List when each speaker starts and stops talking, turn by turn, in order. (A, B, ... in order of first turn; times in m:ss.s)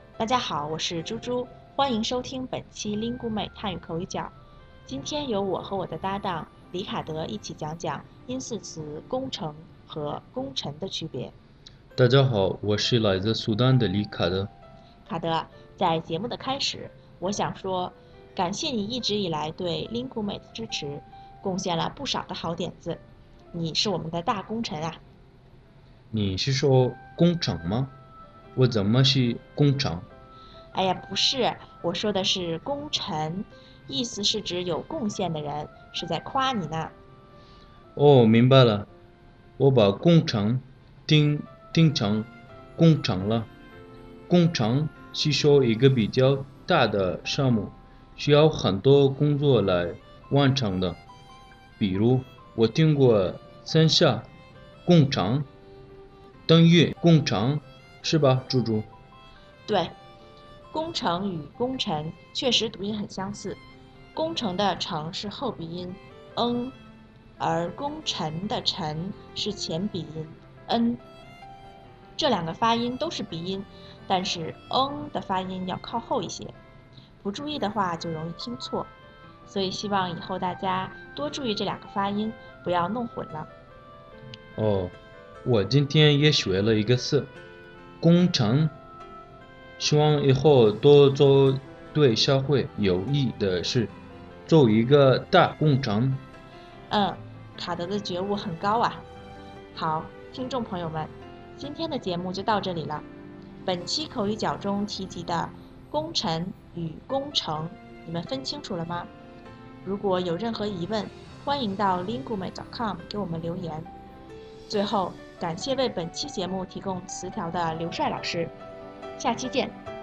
0:00.2-0:04.3 A
0:04.9-0:11.3 A
0:12.0-0:14.5 B
0:15.1-0:23.0 A
0:23.5-0:25.0 A
0:26.1-0:27.9 B
0:28.6-0:30.1 B
0:30.7-0:37.0 A
0:38.0-0:38.9 B
0:39.6-0:43.5 B
0:44.3-0:51.0 B
0:51.8-0:54.3 B
0:54.8-0:55.5 B
0:56.5-0:58.9 B
0:59.7-1:00.0 A
1:00.7-1:03.6 A
1:04.1-1:06.8 A
1:07.4-1:11.0 A
1:12.2-1:16.6 A
1:17.2-1:18.9 A
1:19.5-1:23.5 A
1:24.6-1:27.3 B
1:28.0-1:28.7 B
1:29.8-1:34.0 B
1:34.5-1:36.2 B
1:36.9-1:39.1 A
1:39.7-1:43.1 A
1:43.6-1:49.1 A
1:49.8-1:53.9 A
1:54.7-1:58.5 A
1:59.2-1:59.8 A